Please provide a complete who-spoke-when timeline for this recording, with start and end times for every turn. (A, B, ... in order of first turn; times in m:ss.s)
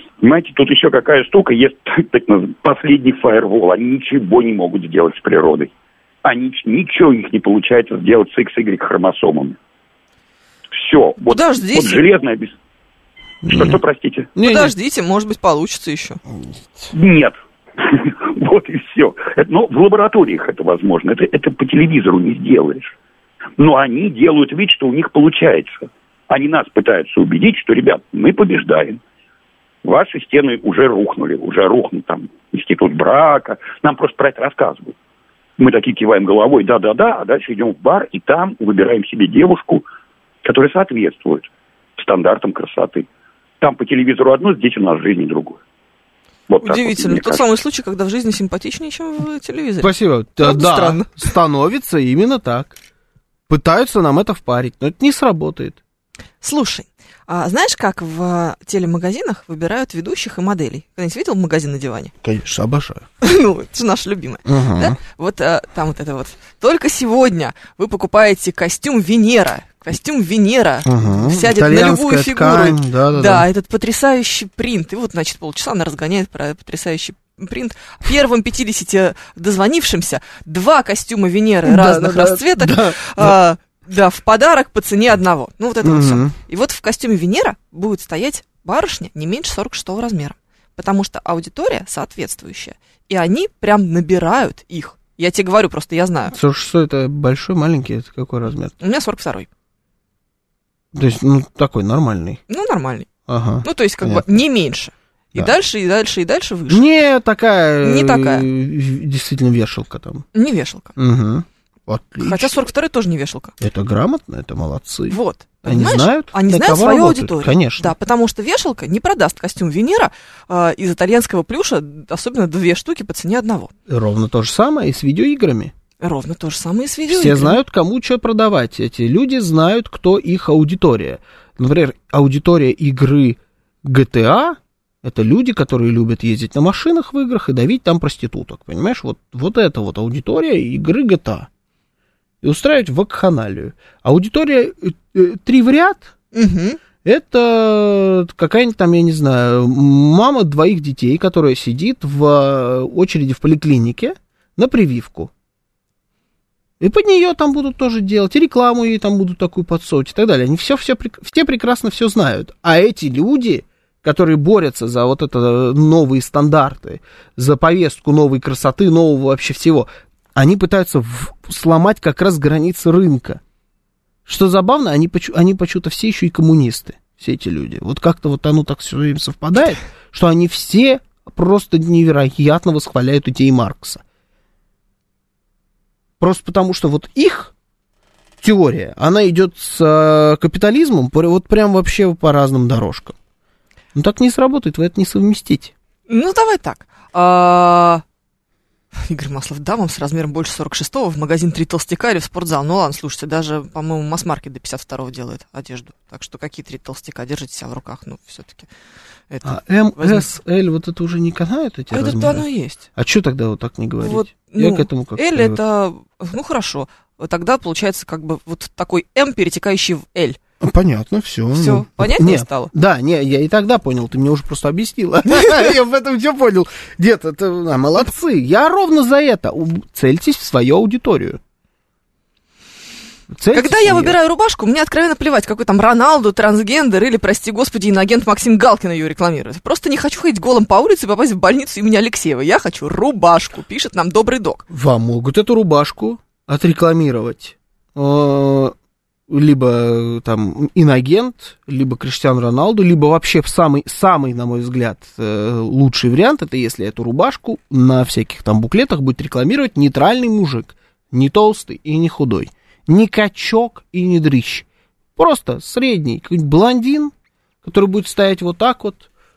0:00.2-0:05.7 A
0:06.2-0:09.6 A
0:10.8-0:12.5 A
0:11.2-0:12.0 B
0:13.4-0:13.8 C
0:13.4-0:14.3 A
0:14.3-0:14.7 C
0:14.4-0:16.2 B
0:16.3-0:16.9 C
0:16.9-0:22.9 A
0:23.6-0:29.0 A
0:29.8-0:34.9 A
0:35.6-0:39.8 A
0:40.4-0:43.1 A
0:43.6-0:45.6 A
0:46.5-0:47.4 A
0:46.6-0:51.1 B
0:49.8-0:52.8 C
0:53.5-0:55.8 C
0:56.4-1:02.1 B
1:02.2-1:03.1 C
1:03.2-1:36.4 B
1:04.4-1:05.0 C
1:10.8-1:13.5 C
1:21.6-1:23.4 C
1:25.8-1:26.3 C
1:36.3-1:38.7 C
1:38.8-1:39.5 B
1:40.9-1:42.4 C
1:42.5-1:43.1 B
1:43.3-1:44.4 C
1:43.6-1:46.8 B
1:46.7-1:50.2 C
1:47.8-1:48.5 B
1:50.3-1:50.9 B
1:51.0-1:52.6 C
1:52.2-1:53.5 B
1:53.6-1:57.9 C
1:55.1-2:03.7 B
2:03.9-2:05.7 C
2:06.0-2:07.6 B
2:07.1-2:21.5 C
2:22.4-2:26.1 C
2:26.3-2:26.8 B
2:27.0-2:35.3 C
2:36.8-2:53.4 C
2:54.2-3:04.0 C
3:06.2-3:07.5 C
3:08.4-3:13.1 C
3:13.9-3:15.7 C
3:16.1-3:18.0 B
3:19.0-3:28.7 B
3:29.3-3:30.3 B
3:29.4-3:35.6 C
3:31.9-3:32.8 B
3:34.0-3:40.4 B
3:40.6-3:51.4 C
3:41.5-3:42.7 B
3:45.3-3:45.6 B
3:53.3-3:54.2 C
3:53.5-4:04.6 B
4:04.7-4:08.7 C
4:09.3-4:27.1 C
4:27.6-4:29.0 C